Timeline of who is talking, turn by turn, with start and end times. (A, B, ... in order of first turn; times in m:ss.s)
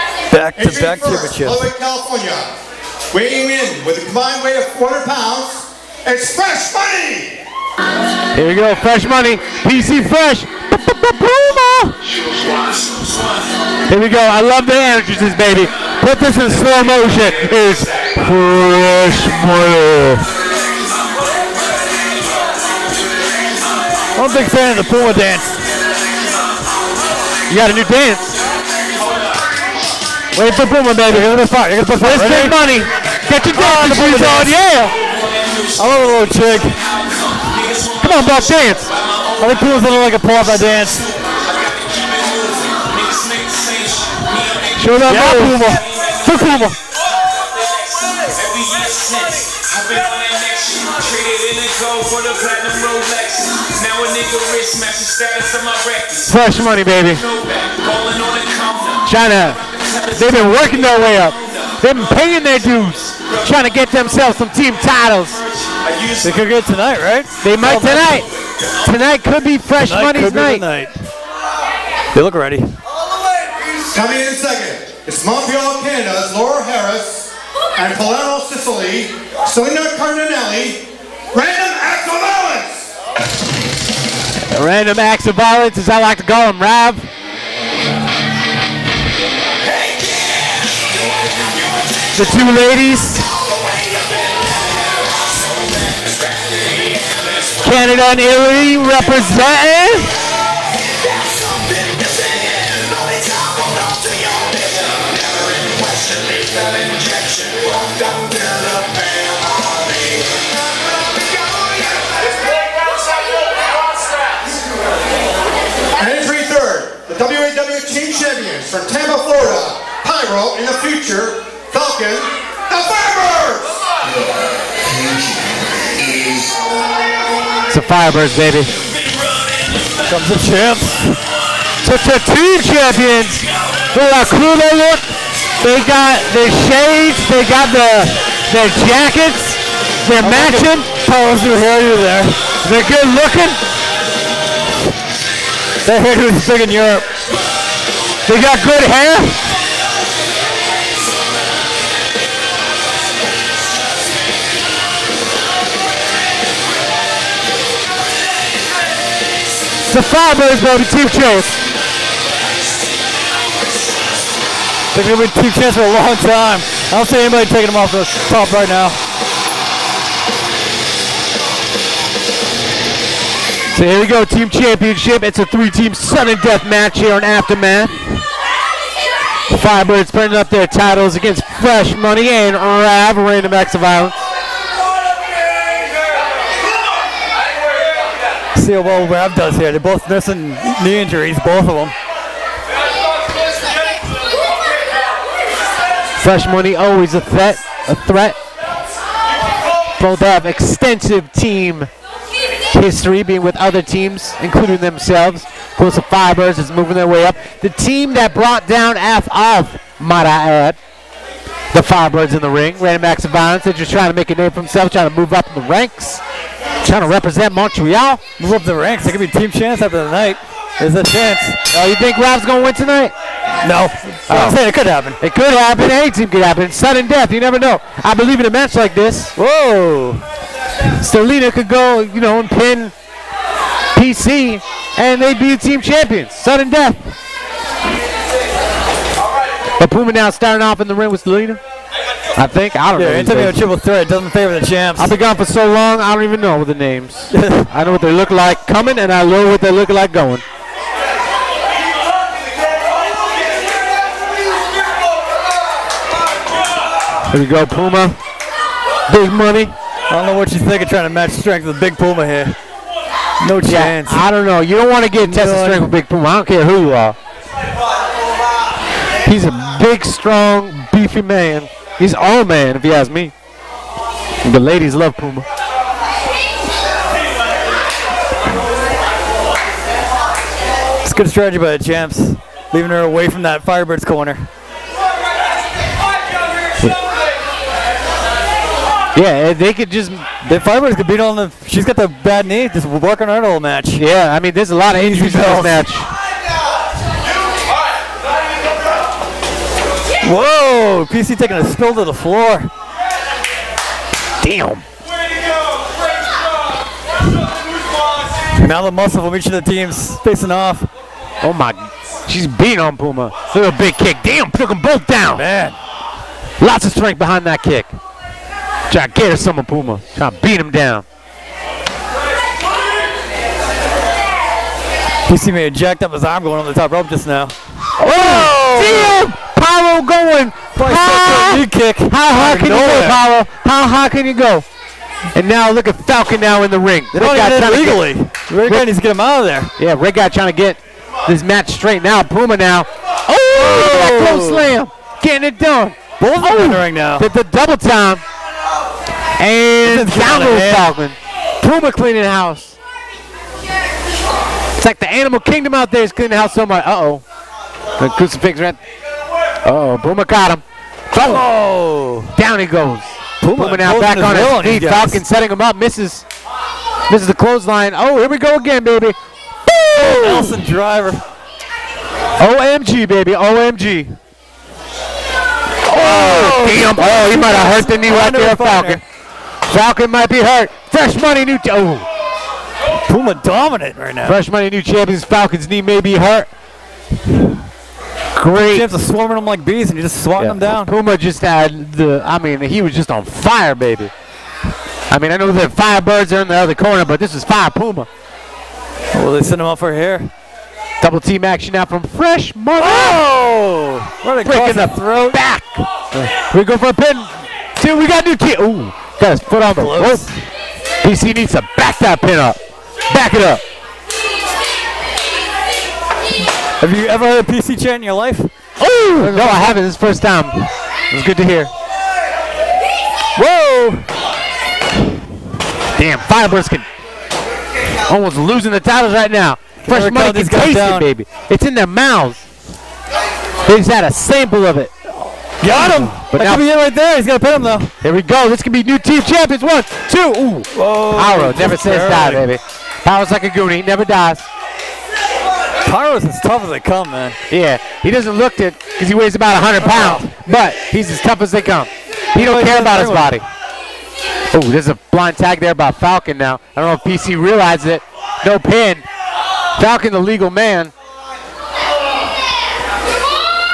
0:00.3-0:01.7 A
0:00.6-0:02.5 B
0:03.1-0:07.4 B
0:08.3-0:12.0 C
0:13.9-0:20.3 C
0:24.2-0:25.5 A
0:27.5-0:28.3 C
0:30.3-0:35.0 C
0:31.1-0:32.6 A
0:33.5-0:34.6 A
0:35.8-0:36.8 A
0:37.9-0:38.9 C
0:39.4-0:41.1 A
0:42.0-0:44.6 D
0:44.7-0:46.8 C
0:45.1-0:45.9 A
0:48.4-0:56.0 D
0:56.1-0:57.3 C
0:57.6-0:58.9 D
0:59.0-1:05.4 C
1:06.2-1:08.3 A
1:07.4-1:08.3 C
1:08.8-1:10.6 C
1:09.8-1:10.9 A
1:12.1-1:12.8 A
1:13.9-1:22.9 B
1:24.5-1:27.1 C
1:32.1-1:33.3 C
1:37.6-1:40.1 C
1:56.0-2:03.8 B
2:07.7-2:08.7 C
2:10.0-2:11.2 A
2:11.8-2:20.9 C
2:20.2-2:22.4 A
2:22.6-2:23.6 C
2:25.8-2:27.1 A
2:28.3-2:29.4 C
2:39.9-2:41.6 C
2:44.9-2:49.0 A
2:53.7-2:58.2 C
2:59.5-3:04.2 C
3:08.6-3:11.9 A
3:16.2-3:18.4 C
3:20.0-3:21.9 C
3:22.7-3:30.8 C
3:31.7-3:36.2 C
3:36.8-3:38.2 C
3:38.4-3:41.6 A
3:41.7-3:43.1 C
3:43.6-3:45.2 A
3:44.3-3:44.6 C
3:45.2-3:49.4 C
3:49.4-3:50.2 A
3:51.0-3:52.9 C
3:54.0-3:57.1 C
3:59.8-4:01.6 C
4:02.4-4:03.6 C
4:02.9-4:05.2 A
4:05.0-4:10.4 C
4:07.3-4:07.7 A
4:17.3-4:18.2 C
4:19.1-4:19.7 C
4:20.1-4:22.6 A
4:23.4-4:24.2 A
4:23.6-4:27.2 C
4:25.2-4:26.0 A
4:29.2-4:33.3 C
4:34.4-4:35.4 C
4:41.0-4:44.5 A
4:49.2-4:50.3 C
4:50.4-4:54.0 A
4:54.0-4:56.1 C
4:54.9-4:55.9 A
5:00.2-5:02.7 A
5:04.4-5:04.8 C
5:08.6-5:10.9 A
5:11.4-5:15.4 C
5:15.3-5:15.8 A
5:16.6-5:17.9 C
5:18.9-5:21.0 C
5:25.3-5:29.3 A
5:28.0-5:34.7 C
5:30.8-5:33.2 A
5:35.3-5:38.0 C
5:37.1-5:39.7 A
5:39.8-5:48.2 C
5:43.5-5:44.7 A
5:46.2-5:47.3 A
5:49.4-5:52.8 C
5:49.8-5:50.9 A
5:54.8-5:57.2 C
5:58.0-5:58.8 C
5:59.6-6:01.5 C
6:01.2-6:02.3 A
6:02.4-6:06.2 C
6:03.4-6:05.2 A
6:07.1-6:10.6 C
6:10.2-6:11.2 A
6:12.4-6:14.2 C
6:15.9-6:19.0 A
6:15.9-6:19.0 C
6:19.7-6:22.1 C
6:23.1-6:24.4 A
6:24.2-6:26.5 C
6:28.4-6:28.9 C
6:28.6-6:30.9 A
6:30.4-6:34.1 C
6:35.1-6:38.1 C
6:39.1-6:40.3 A
6:41.0-6:43.2 C
6:42.8-6:45.4 A
6:44.4-6:50.3 C
6:49.8-6:50.4 A
6:51.0-6:53.6 C
6:56.8-6:58.5 A
6:58.8-7:01.7 C
6:59.2-6:59.8 A
7:03.4-7:04.1 A
7:06.0-7:06.8 C
7:08.1-7:12.4 C
7:09.8-7:11.1 A
7:13.6-7:14.9 C
7:15.6-7:17.9 A
7:15.6-7:16.6 C
7:18.0-7:24.5 C
7:20.7-7:22.5 A
7:25.8-7:27.4 A
7:27.5-7:33.4 C
7:29.8-7:30.3 A
7:32.3-7:33.4 A
7:34.5-7:39.1 C
7:39.8-7:40.9 C